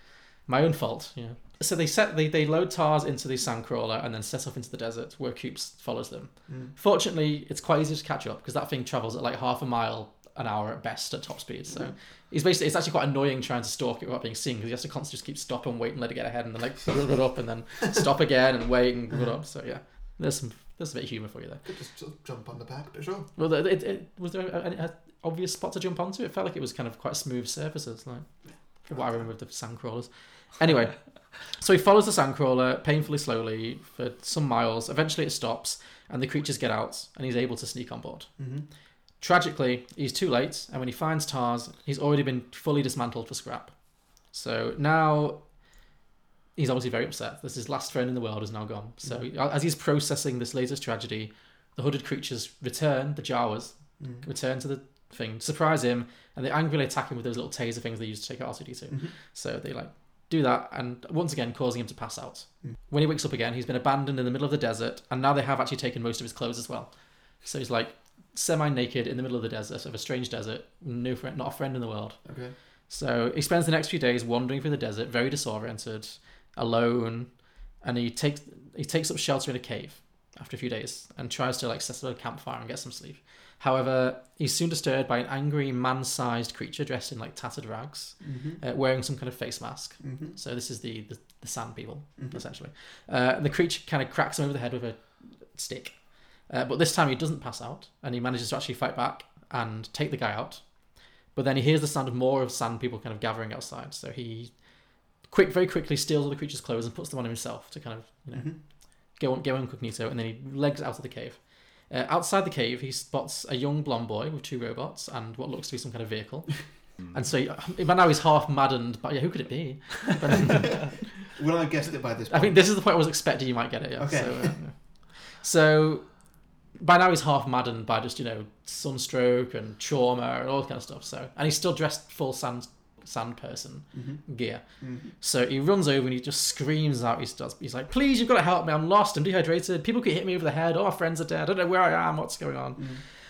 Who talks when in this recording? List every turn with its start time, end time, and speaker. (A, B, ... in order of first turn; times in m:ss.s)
0:00.5-0:21.6 A
0:06.5-0:06.8 B
0:21.7-0:23.3 B
0:23.4-0:28.2 A
0:28.8-0:30.1 A
0:28.9-0:29.2 B
0:30.6-0:31.0 A
0:31.6-0:38.3 A
0:38.4-0:38.7 B
0:39.2-0:43.7 A
0:44.3-0:45.4 A
0:46.6-1:06.9 A
0:54.0-0:54.2 B
1:07.4-1:12.2 A
1:12.2-1:12.5 B
1:12.9-1:17.3 A
1:17.8-1:35.9 A
1:28.2-1:28.6 B
1:30.0-1:30.4 B
1:36.5-1:40.6 A
1:41.4-1:44.5 A
1:45.3-1:48.5 A
1:49.2-1:51.4 A
1:51.9-1:56.5 A
1:57.1-2:00.9 A
2:00.4-2:02.6 B
2:02.3-2:04.8 A
2:04.0-2:04.6 B
2:05.4-2:06.1 A
2:06.8-2:14.6 A
2:13.9-2:14.2 B
2:14.8-2:15.1 B
2:15.2-2:22.8 A